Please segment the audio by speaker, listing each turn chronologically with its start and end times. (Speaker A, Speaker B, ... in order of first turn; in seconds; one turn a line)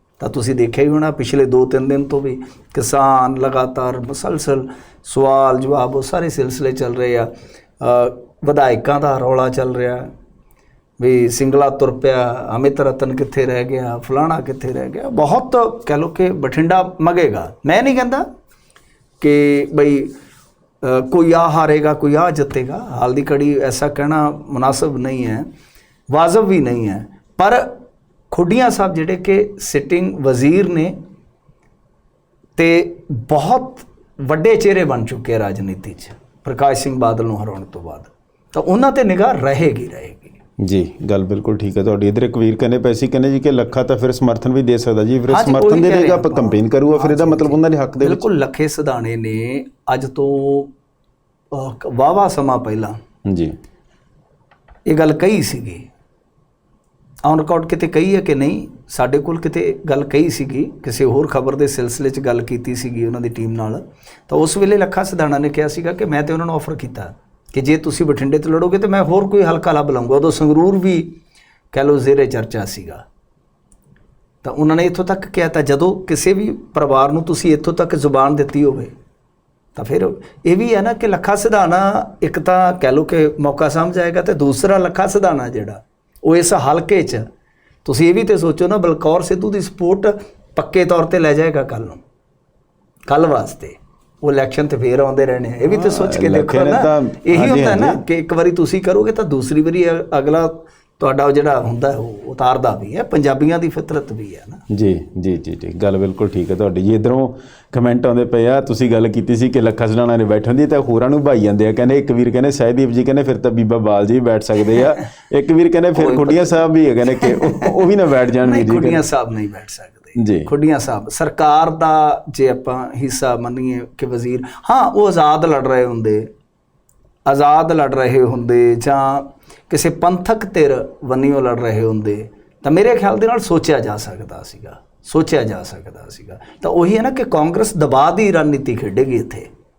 Speaker A: 0.2-10.1
Speaker A: 11.0-18.2
Speaker A: 19.2-20.1
Speaker A: 20.8-25.5
Speaker A: 26.1-27.7
Speaker A: 28.3-30.9
Speaker A: 32.6-40.4
Speaker B: 40.6-48.2
Speaker A: 45.3-50.7
Speaker A: 51.5-52.9
Speaker B: 53.2-53.5
Speaker A: 54.9-55.9
Speaker A: 57.2-71.1
Speaker A: 71.7-73.0
Speaker A: 74.4-78.9
Speaker A: 79.8-87.2
Speaker A: 87.8-92.0
Speaker A: 93.1-104.6
Speaker B: 95.7-98.0
Speaker B: 104.7-119.0
Speaker A: 115.9-126.3
Speaker B: 120.2-120.5
Speaker A: 127.2-139.5